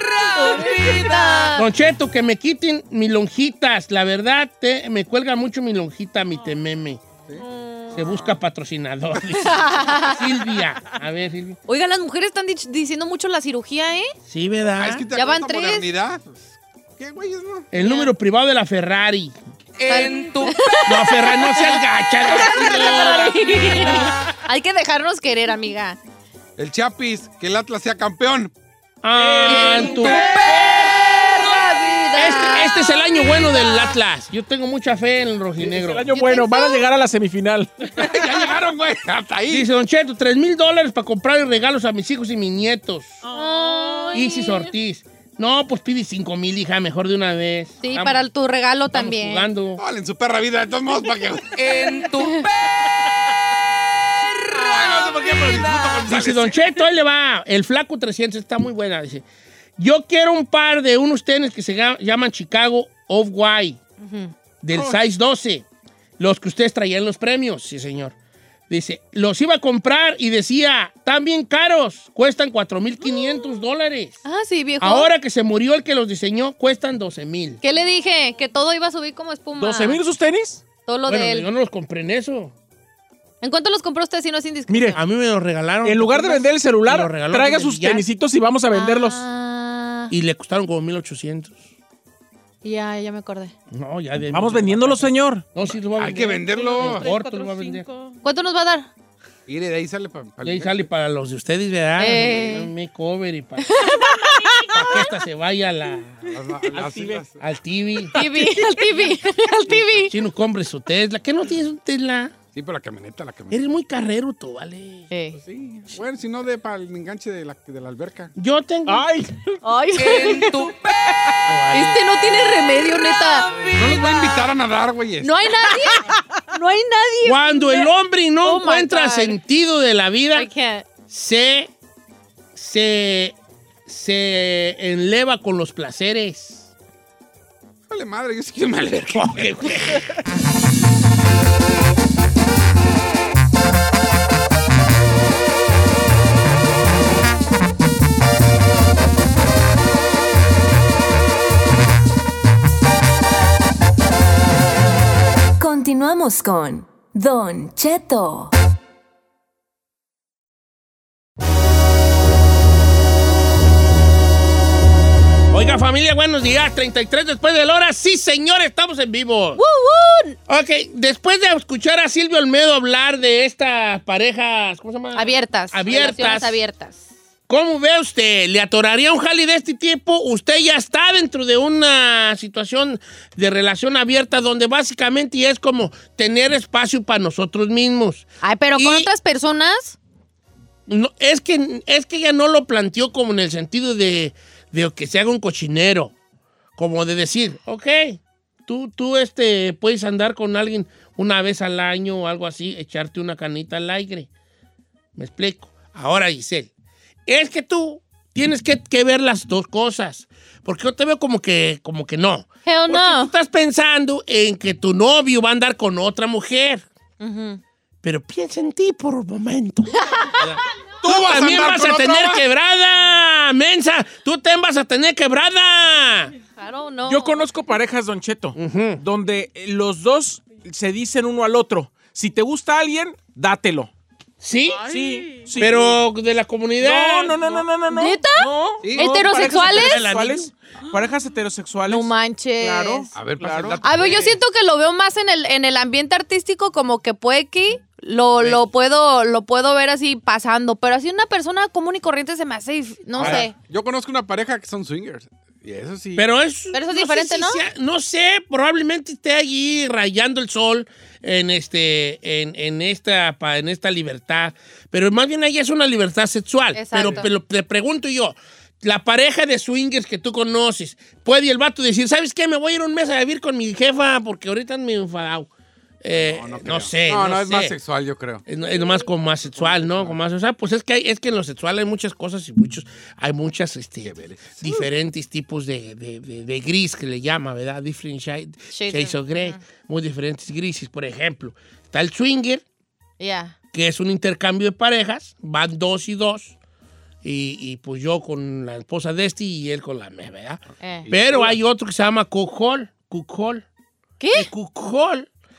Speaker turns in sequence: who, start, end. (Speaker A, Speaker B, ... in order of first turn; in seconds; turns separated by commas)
Speaker A: 0.2-1.6, Speaker B: 1.5-7.0, Speaker A: 7.4-8.3, Speaker B: 7.9-11.6, Speaker A: 9.4-10.3, Speaker A: 11.7-14.1, Speaker B: 14.3-15.1, Speaker C: 14.8-17.7, Speaker A: 15.1-15.9, Speaker B: 17.7-19.3, Speaker A: 17.7-18.1, Speaker D: 19.8-20.6, Speaker A: 19.9-26.0, Speaker B: 20.9-23.9, Speaker C: 26.6-28.5, Speaker B: 29.0-31.0, Speaker E: 29.1-30.4, Speaker A: 29.5-32.9, Speaker B: 32.1-36.1, Speaker E: 35.6-37.9, Speaker A: 36.1-36.9, Speaker C: 38.0-39.7, Speaker B: 39.5-43.2, Speaker F: 43.2-44.3, Speaker A: 43.3-44.7, Speaker B: 44.1-48.2, Speaker A: 47.8-49.5, Speaker B: 48.9-49.8, Speaker C: 49.8-51.6, Speaker D: 51.5-52.5, Speaker C: 54.6-56.6, Speaker D: 54.7-56.0, Speaker B: 56.1-59.2, Speaker B: 59.8-63.8, Speaker A: 64.0-64.3, Speaker B: 64.6-65.7, Speaker B: 66.2-68.1, Speaker B: 68.7-74.2, Speaker A: 74.2-75.1, Speaker B: 74.8-77.6, Speaker A: 77.6-80.0, Speaker E: 79.6-80.6, Speaker A: 80.8-81.5, Speaker B: 81.1-82.5, Speaker A: 83.4-85.0, Speaker E: 84.7-85.0, Speaker B: 84.9-88.0, Speaker E: 85.8-89.2, Speaker A: 88.7-90.1, Speaker B: 90.1-91.6, Speaker A: 92.6-93.5, Speaker B: 93.7-97.8, Speaker E: 94.3-95.5, Speaker C: 95.9-97.1, Speaker F: 96.5-98.2, Speaker A: 98.2-98.9, Speaker C: 99.5-100.9, Speaker B: 100.4-103.8, Speaker A: 102.0-102.7, Speaker A: 103.7-105.1, Speaker B: 104.7-106.3, Speaker C: 106.2-107.4, Speaker E: 106.7-107.2, Speaker B: 107.4-108.2, Speaker A: 108.1-110.1, Speaker E: 108.2-108.5, Speaker B: 110.0-112.3, Speaker C: 112.5-113.6, Speaker B: 113.5-115.1, Speaker A: 115.1-115.4, Speaker C: 115.3-118.3, Speaker B: 118.3-119.1, Speaker E: 118.9-119.6, Speaker A: 119.6-120.7, Speaker D: 120.0-120.8, Speaker B: 121.4-122.3, Speaker A: 121.7-123.5, Speaker C: 123.7-125.6, Speaker A: 125.2-127.9, Speaker B: 127.2-130.5, Speaker A: 128.4-129.4, Speaker A: 130.3-130.8, Speaker B: 131.1-131.7, Speaker B: 132.5-133.3, Speaker B: 133.9-136.7, Speaker C: 137.9-140.0, Speaker B: 139.1-140.1, Speaker G: 155.6-158.5, Speaker B: 165.5-169.6, Speaker A: 169.6-170.4, Speaker B: 170.5-176.6, Speaker A: 175.1-177.0, Speaker B: 177.5-189.1, Speaker A: 188.4-190.0, Speaker B: 190.9-196.1, Speaker B: 196.8-204.3, Speaker B: 205.2-206.7, Speaker B: 207.3-216.8, Speaker A: 212.7-213.3, Speaker A: 217.2-217.6, Speaker B: 218.0-226.3, Speaker A: 220.1-220.4, Speaker C: 221.0-222.4, Speaker A: 226.6-227.4, Speaker E: 227.1-233.9, Speaker B: 228.5-229.0, Speaker B: 234.4-234.8, Speaker F: 234.7-235.5, Speaker E: 234.8-236.0, Speaker B: 235.6-237.3, Speaker E: 236.8-244.3, Speaker A: 237.9-240.0, Speaker C: 238.8-239.1, Speaker B: 239.2-240.5, Speaker A: 241.9-243.1, Speaker C: 243.1-244.3, Speaker A: 243.8-253.5, Speaker C: 253.1-256.3, Speaker B: 253.2-253.5, Speaker B: 256.1-275.5, Speaker A: 256.7-257.6, Speaker A: 266.7-267.3, Speaker C: 267.0-267.3, Speaker B: 276.0-277.8, Speaker C: 276.1-278.4, Speaker B: 278.4-292.6, Speaker C: 279.5-280.2, Speaker C: 284.0-284.9, Speaker A: 288.7-289.6, Speaker A: 293.2-293.6, Speaker B: 293.7-296.5, Speaker B: 297.2-303.6, Speaker A: 300.8-301.1, Speaker C: 301.0-301.6, Speaker A: 304.2-304.5, Speaker B: 304.3-305.3